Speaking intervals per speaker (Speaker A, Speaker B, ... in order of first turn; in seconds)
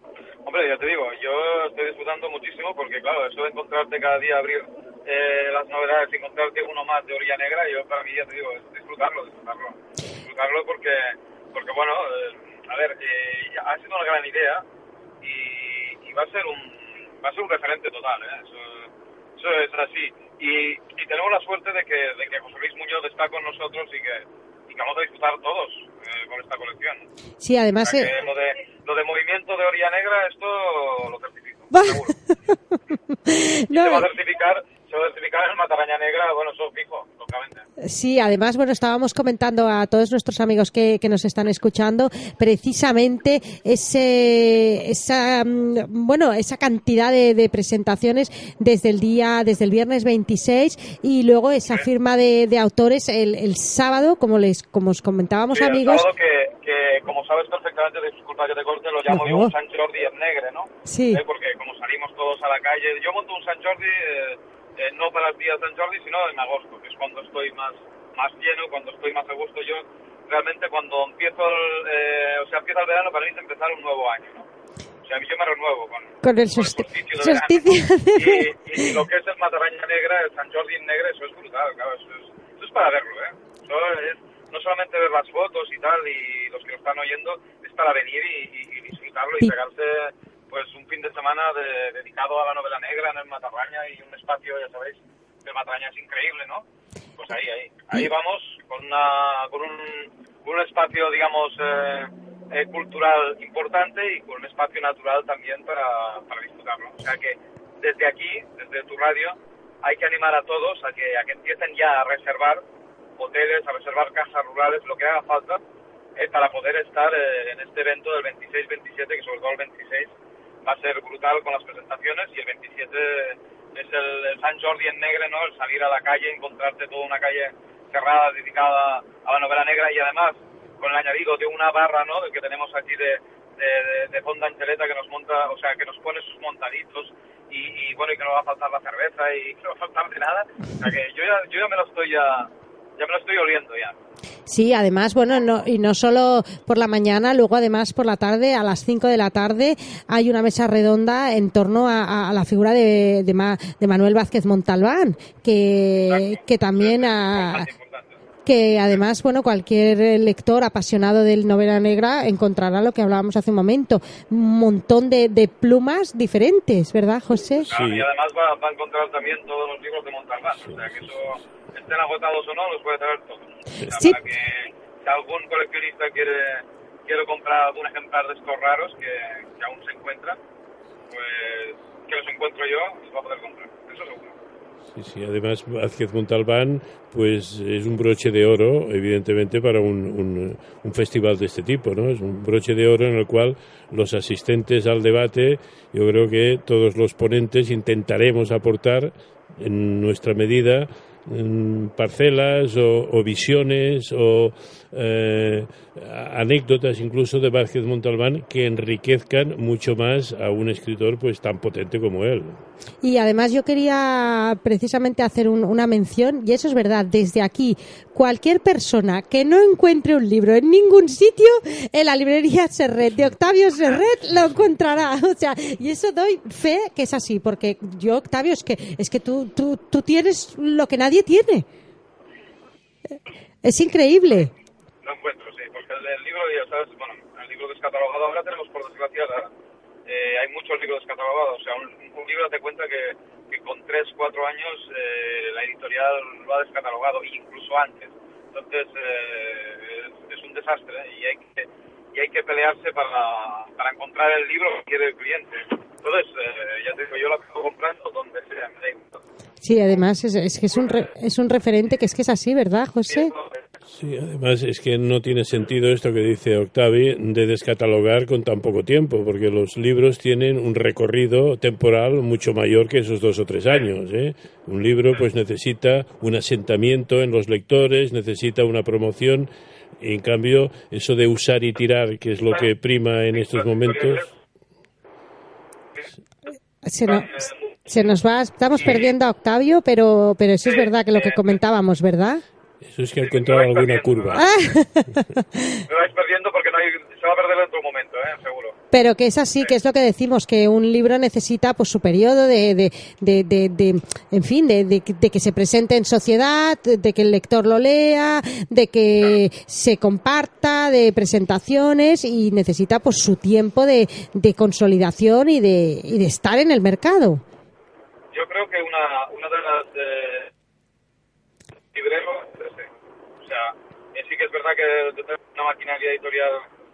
Speaker A: 0.4-14.6, 15.2-27.1, 27.8-32.1, 33.7-37.6, 55.5-74.5, 75.0-96.6, 97.2-112.6, 113.2-115.6, 116.2-120.1, 120.6-143.9, 155.9-158.2, 167.7-180.4, 181.1-184.3, 235.0-239.5, 240.1-259.2, 263.1-263.6, 283.3-284.3, 287.1-287.6, 288.8-289.1, 290.6-291.4, 293.2-294.5, 295.9-298.8, 318.3-320.5, 321.9-322.9, 323.4-326.6
Speaker B: 27.4-28.1, 31.7-32.0, 33.1-34.1, 37.8-56.1, 59.1-59.5, 60.9-61.2, 76.2-78.9, 144.5-157.7, 158.4-167.7, 213.0-231.7, 233.6-234.5, 259.6-263.3, 286.8-292.4, 294.4-295.8, 298.9-317.4
Speaker C: 167.7-168.1, 170.6-170.9, 184.9-212.6, 263.9-284.3, 292.8-294.5